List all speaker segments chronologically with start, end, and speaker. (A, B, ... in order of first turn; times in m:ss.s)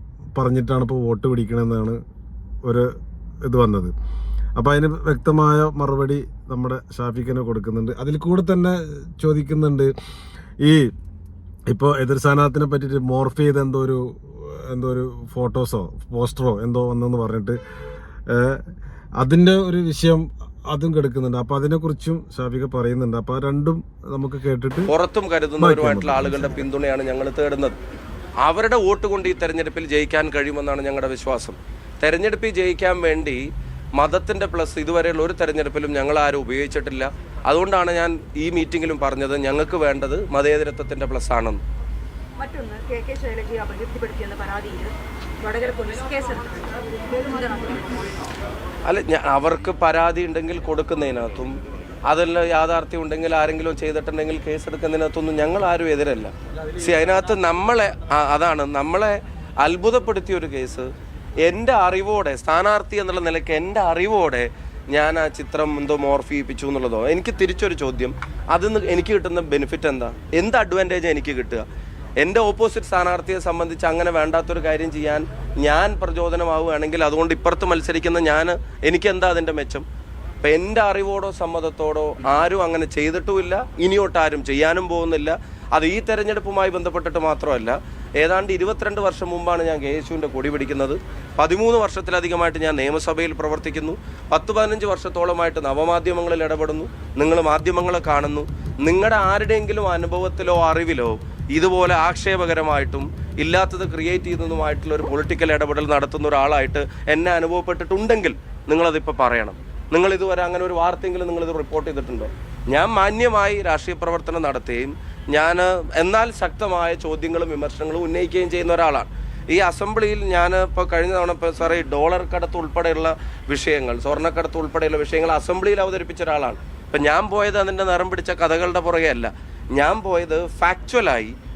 0:00.4-0:02.0 A
0:03.4-0:03.9 A
0:04.6-0:09.9 A
0:10.6-0:10.9 A
0:11.7-0:17.6 A
0:18.3-0:18.6 A
0:19.2-0:24.9 A
0:24.9-0:27.8 B
0:25.6-0:26.7 A
0:28.4-0:33.4 B
0:34.0-0:41.6 B
0:42.4-0:48.1 C
0:48.8-0:51.6 B
0:52.1-1:00.9 B
1:01.4-1:11.6 B
1:12.2-1:19.8 B
1:20.4-2:11.4 B